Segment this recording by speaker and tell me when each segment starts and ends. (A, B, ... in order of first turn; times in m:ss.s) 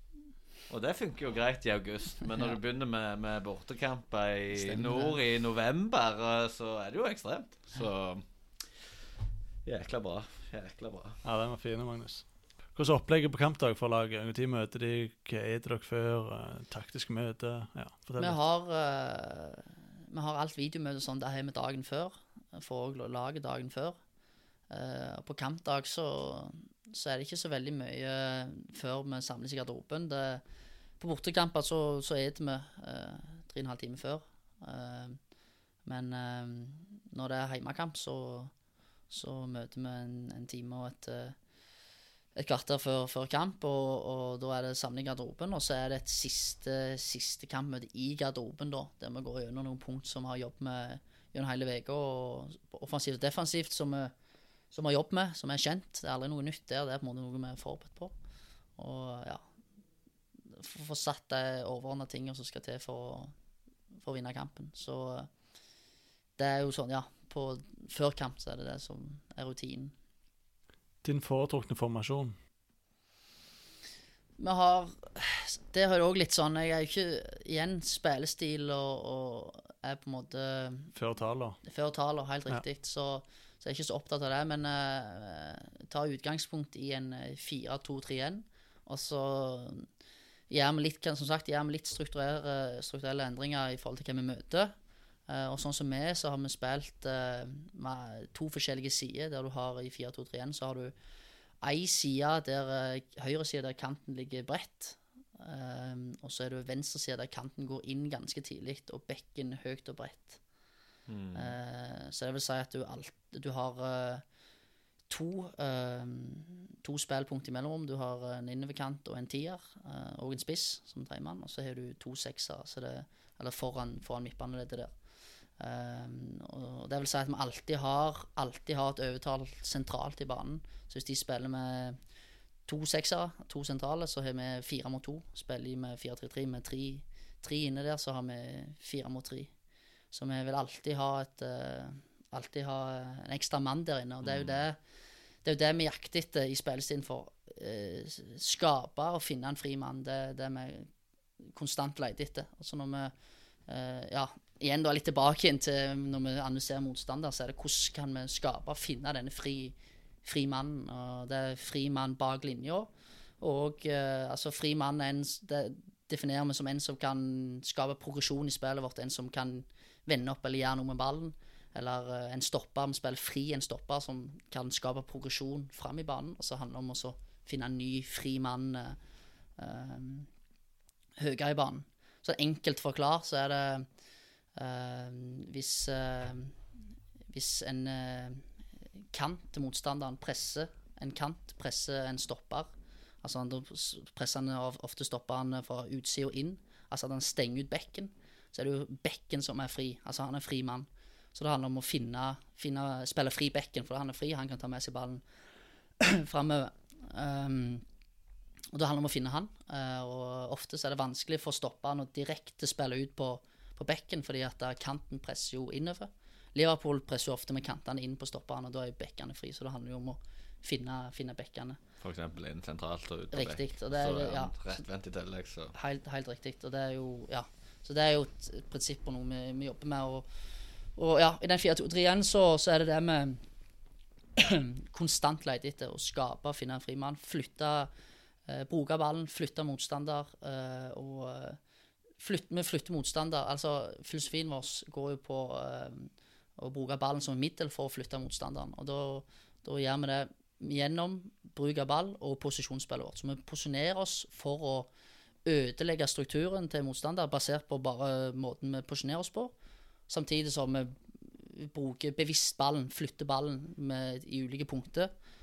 0:00.7-0:08.6 A
0:04.5-0:05.2 B
0:09.6-0:11.2 A
0:11.2-0:18.4 C
0:18.2-0:24.0 B
0:24.7-0:30.4 B
0:31.0-0:35.2 B
0:35.8-0:38.5 B
0:39.1-0:41.4 B
0:42.4-0:54.1 B
0:54.7-0:58.1 B
0:58.8-0:59.4 B
1:00.5-1:03.3 B
1:04.0-1:05.3 B
1:06.4-1:09.9 B
1:11.0-1:12.4 C
1:14.4-1:20.9 B
1:21.0-1:21.6 C
1:21.6-1:29.9 B
1:30.5-1:34.7 B
1:35.3-1:40.9 B
1:41.6-1:50.4 B
1:51.1-1:51.6 A
1:51.4-1:54.2 B
1:55.1-2:04.9 B
2:05.6-2:12.0 B
2:12.7-2:19.5 B
2:20.1-2:24.8 B
2:24.2-2:24.6 A
2:25.4-2:30.9 B
2:31.4-2:33.1 B
2:33.7-2:59.0 B
2:59.6-3:00.3 B
3:01.2-3:03.9 B
3:04.6-3:06.6 B
3:07.3-3:08.4 B
3:09.1-3:12.7 B
3:13.2-3:25.2 B
3:26.0-3:27.8 B
3:28.7-3:41.8 B
3:42.0-3:45.7 A
3:43.3-3:44.8 B
3:45.7-3:50.3 B
3:51.0-3:53.4 B
3:54.4-3:57.9 B
3:58.5-4:01.6 B
4:02.2-4:14.9 B
4:15.5-4:19.5 B
4:20.1-4:25.1 B